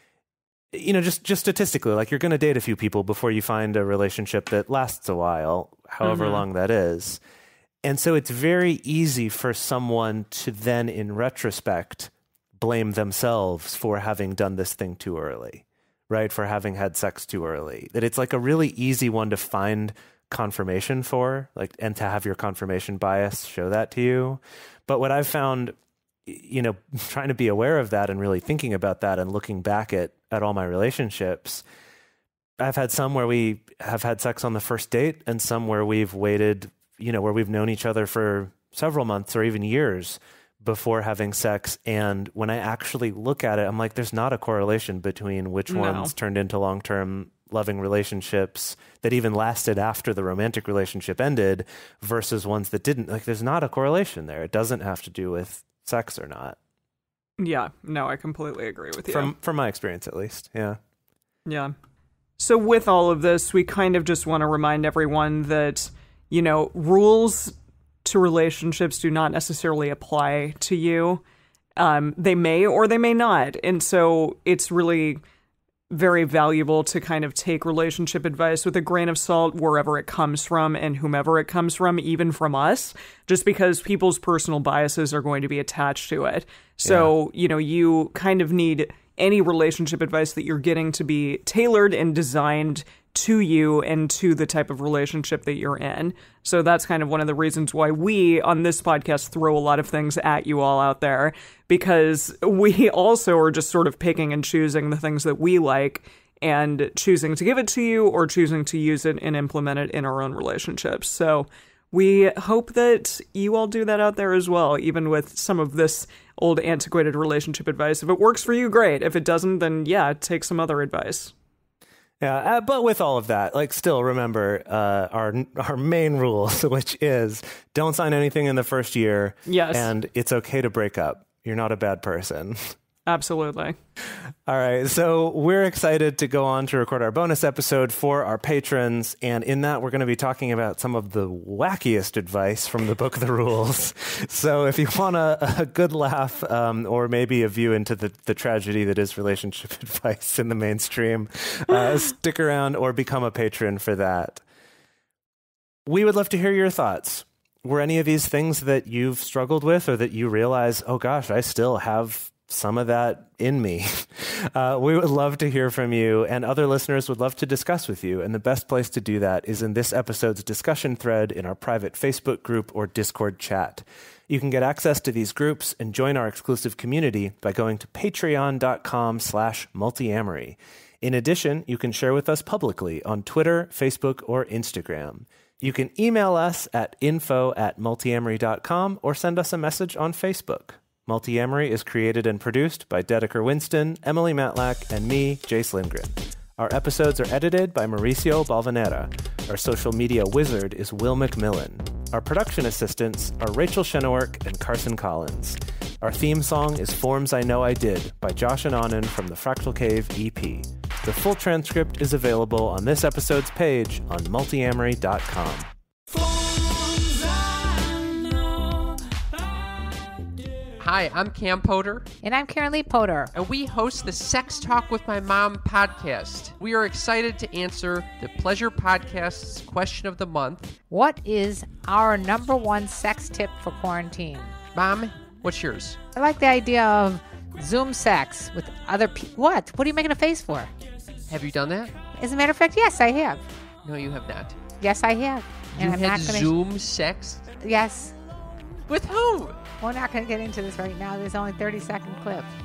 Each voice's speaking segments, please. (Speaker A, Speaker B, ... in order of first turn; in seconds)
Speaker A: 0.7-7.2, 7.8-25.7, 26.2-31.6, 32.6-56.6, 59.1-60.8, 86.8-87.1, 122.2-132.8, 134.4-154.4, 155.8-215.7
Speaker B: 6.0-6.4, 45.7-46.1, 57.4-59.3, 61.5-61.7, 62.4-71.2, 71.8-75.2, 75.9-121.3, 129.4-129.9, 133.1-133.8
Speaker C: 220.8-222.1, 223.3-230.8, 234.7-236.0, 241.3-242.0, 243.8-244.6, 245.8-247.5, 248.9-249.7
Speaker D: 222.2-223.3, 230.9-234.5, 236.1-240.7, 242.1-243.4, 244.8-246.5, 247.6-248.1, 249.7-252.5